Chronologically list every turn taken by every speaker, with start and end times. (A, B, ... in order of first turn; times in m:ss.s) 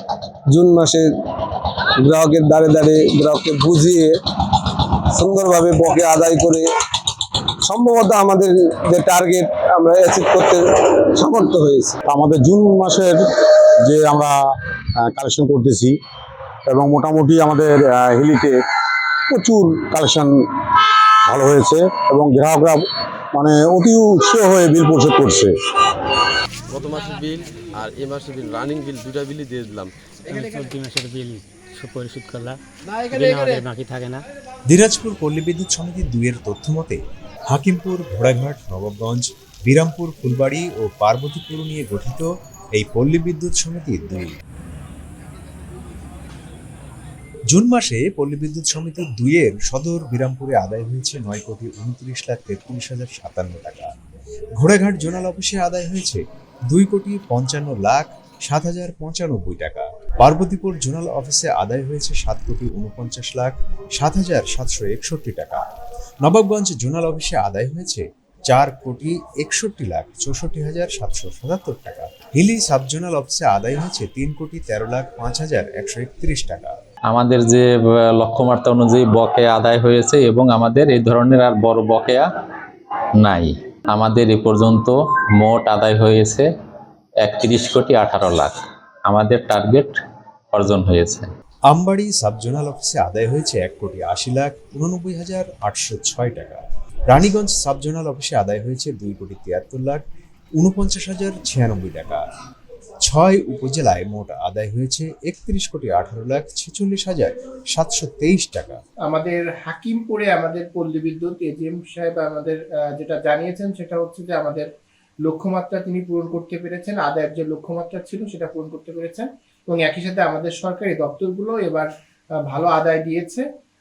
0:00.5-0:01.1 A
0:02.0-0:06.7 A
0:07.6-0:11.9 A
0:12.1-0:13.2 B
0:13.8-0:14.4 B
0:15.0-0:16.0 B
0:16.7-0:18.6 B
0:19.3-0:20.4 B
0:21.3-0:25.5 B
0:26.7-0:29.9 C
0:30.3-0:34.2 D
0:34.7-0:44.4 E
0:47.5-0:53.9 E
0:54.6-1:05.6 E
1:06.2-1:16.8 E
1:17.1-1:22.3 F
1:23.2-1:26.5 F
1:27.2-1:30.0 F
1:30.5-1:31.3 F
1:31.7-1:40.0 E
1:40.6-1:42.2 E
1:43.0-1:48.8 E
1:49.1-1:54.7 G
1:55.2-2:01.9 G
2:02.5-2:03.4 G